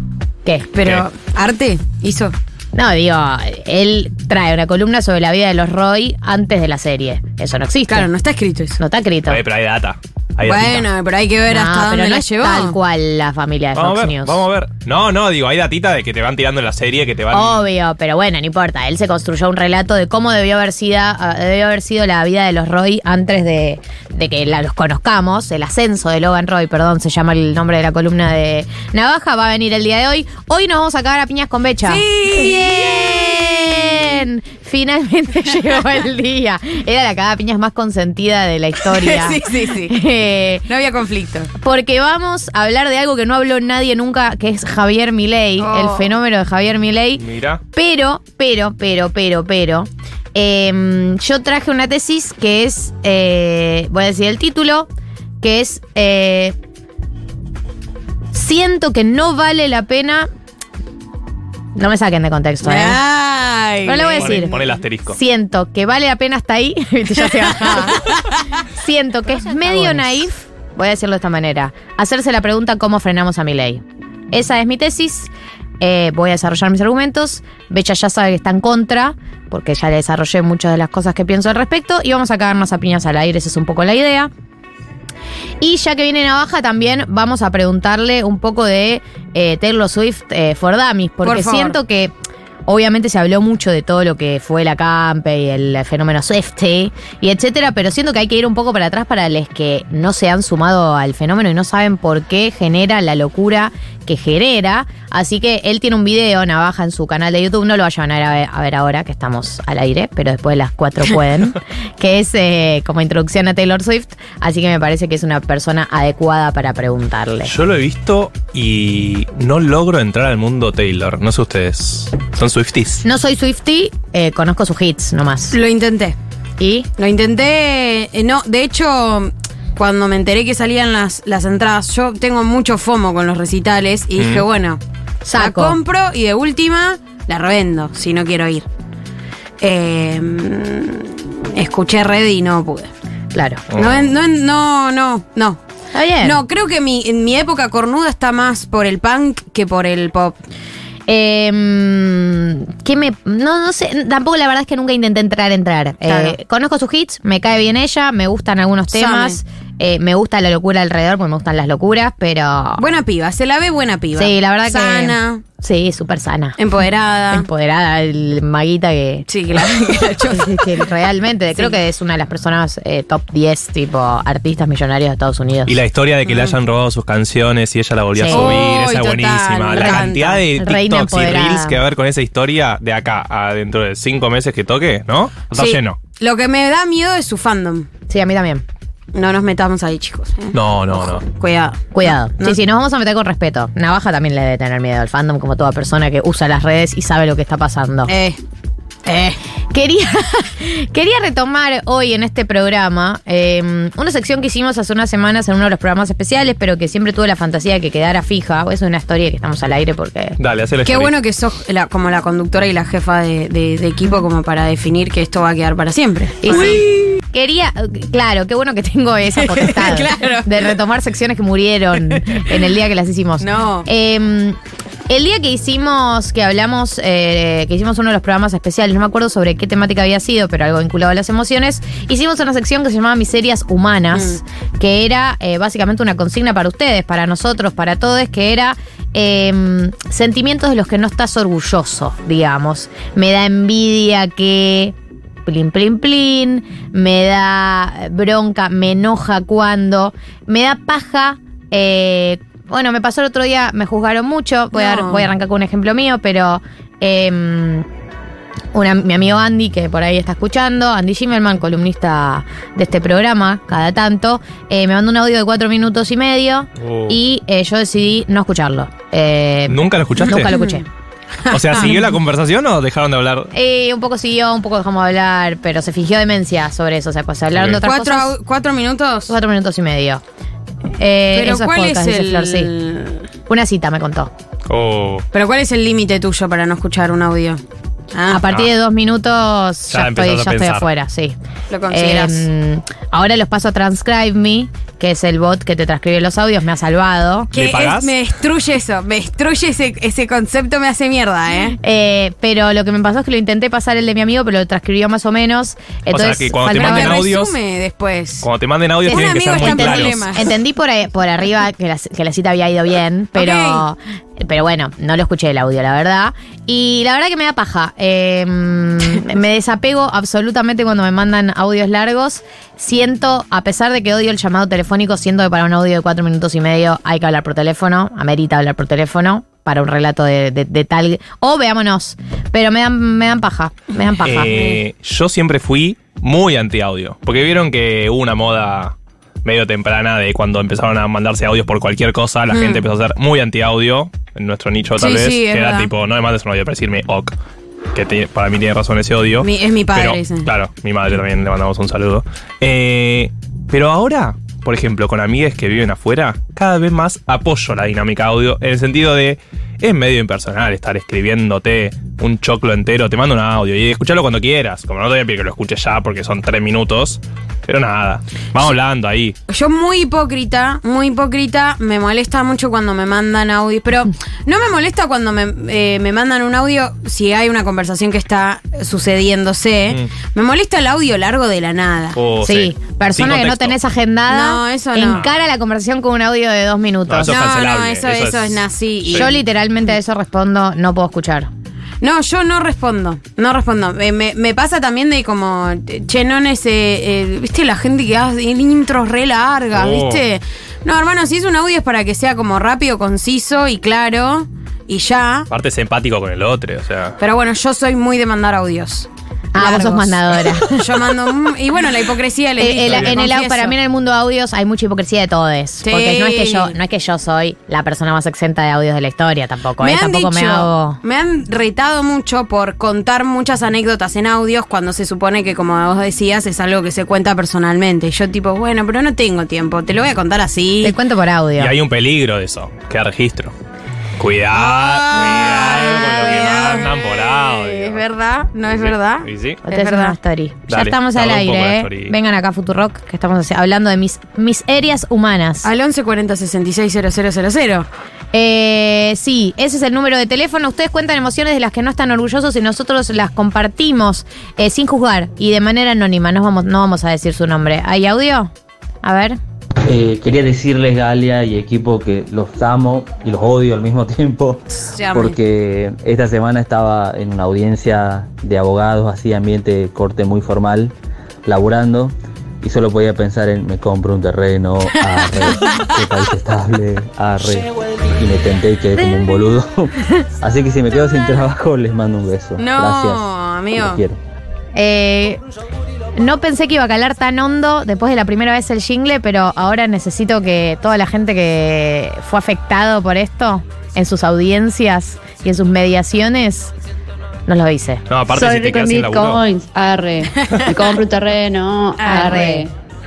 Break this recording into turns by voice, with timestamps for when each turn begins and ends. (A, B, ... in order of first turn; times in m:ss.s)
0:00.4-0:00.7 A
0:00.7-0:02.3 B
0:02.7-0:08.1 A
0:07.9-0:08.8 B
0:08.8-0:09.4 A
0:09.3-0:10.9 C
0:10.4-0:12.8 B
0:11.5-0:14.4 A
0:13.8-0:17.7 C
0:17.3-0:40.6 A
0:31.8-0:34.0 B
0:38.8-0:40.0 B
0:40.7-0:41.5 B
0:41.6-0:54.9 A
0:45.6-0:46.1 B
0:47.2-0:47.6 C
0:55.4-0:56.6 A
0:58.3-1:00.3 A
1:01.8-1:03.0 A
1:02.6-1:04.6 B
1:03.9-1:04.6 A
1:04.2-1:05.2 C
1:05.1-1:08.1 A
1:07.4-1:08.4 B
1:08.8-1:24.3 A
1:09.6-1:10.1 B
1:25.6-1:32.1 A
1:31.2-1:31.8 B
1:32.7-1:57.5 A
1:57.4-2:03.0 C
2:03.0-2:05.6 A
2:05.5-2:06.2 B
2:06.6-2:06.9 A
2:07.0-2:14.8 B
2:14.2-2:14.5 C
2:15.3-2:15.8 A
2:15.4-2:18.7 B
2:19.6-2:22.9 B
2:23.3-2:23.6 A
2:23.7-2:24.1 C
2:23.8-2:25.6 B
2:25.9-2:26.4 A
2:26.2-2:30.4 B
2:31.1-2:42.8 A
2:36.0-2:36.4 B
2:38.9-2:39.4 B
2:42.8-2:45.4 B
2:44.2-2:46.6 A
2:46.6-2:47.5 B
2:47.3-2:55.8 A
2:49.3-2:50.9 B
2:55.7-3:06.0 C
2:56.3-2:56.6 B
2:58.2-2:58.7 A
2:58.3-3:00.4 B
2:59.7-3:01.8 A
3:05.5-3:07.9 B
3:08.1-3:08.6 A
3:09.1-3:12.6 B
3:10.5-3:11.2 C
3:11.9-3:18.1 A
3:18.1-3:18.4 B
3:19.1-3:19.4 B
3:19.7-3:30.4 A
3:30.4-3:31.2 C
3:30.8-3:37.2 B
3:36.4-3:44.6 A
3:39.4-3:40.8 B
3:42.1-3:42.5 B
3:43.4-3:43.9 B
3:45.1-4:05.0 A
3:54.1-3:54.4 B
4:05.5-4:17.9 A
4:14.7-4:15.3 B
4:18.7-4:30.8 A
4:26.8-4:27.2 C
4:29.7-4:30.6 C
4:30.4-4:30.8 B
4:31.4-4:32.0 B
4:31.5-4:33.5 C
4:33.5-4:38.3 A
4:37.5-4:37.8 C
4:37.8-4:39.3 B
4:39.3-4:40.2 A
4:41.0-4:42.7 A
4:41.3-4:43.2 B
4:43.5-4:44.3 A
4:44.7-4:45.2 C
4:45.3-4:47.6 B
4:48.1-4:48.4 B
4:48.3-4:51.4 A
4:49.9-4:50.9 C
4:51.7-4:52.5 B
4:51.9-4:57.5 A
4:57.5-4:58.2 C
4:57.5-5:01.8 B
5:01.8-5:07.2 A
5:06.1-5:07.6 C
5:06.7-5:08.5 B
5:08.4-5:10.3 C
5:09.0-5:10.5 B
5:09.1-5:34.7 A
5:13.4-5:13.8 B
5:34.2-5:47.4 C
5:42.5-5:42.9 B
5:45.0-5:45.9 B
5:47.9-6:09.4 C
5:49.4-5:50.5 B
6:09.5-6:22.2 B
6:22.2-6:23.8 C
6:22.4-6:27.4 A
6:24.3-6:25.2 B
6:27.1-6:29.3 C
6:27.3-6:29.4 B
6:29.1-6:31.5 A
6:32.0-6:45.5 B
6:39.7-6:40.2 C
6:45.5-6:47.2 C
6:47.2-6:53.8 B
6:49.5-6:50.8 A
6:52.6-7:01.0 A
6:52.9-6:53.2 C
6:55.8-6:56.8 B
6:59.8-7:11.0 B
7:10.8-7:11.7 A
7:11.6-7:13.5 C
7:14.2-7:18.0 C
7:14.5-7:20.2 B
7:18.7-7:19.6 C
7:19.7-7:25.7 A
7:20.7-7:22.2 C
7:25.6-7:27.9 B
7:28.3-7:38.5 A
7:39.0-7:39.4 A
7:39.8-7:50.9 D
7:44.8-7:45.4 B
7:51.4-8:04.2 D
7:55.0-7:55.9 B
8:02.6-8:04.0 B
8:04.8-8:05.4 A
8:06.2-8:16.7 A
8:17.5-8:18.0 A
8:18.1-8:19.4 C
8:18.3-8:22.7 E
8:22.0-8:22.5 B
8:22.1-8:22.6 A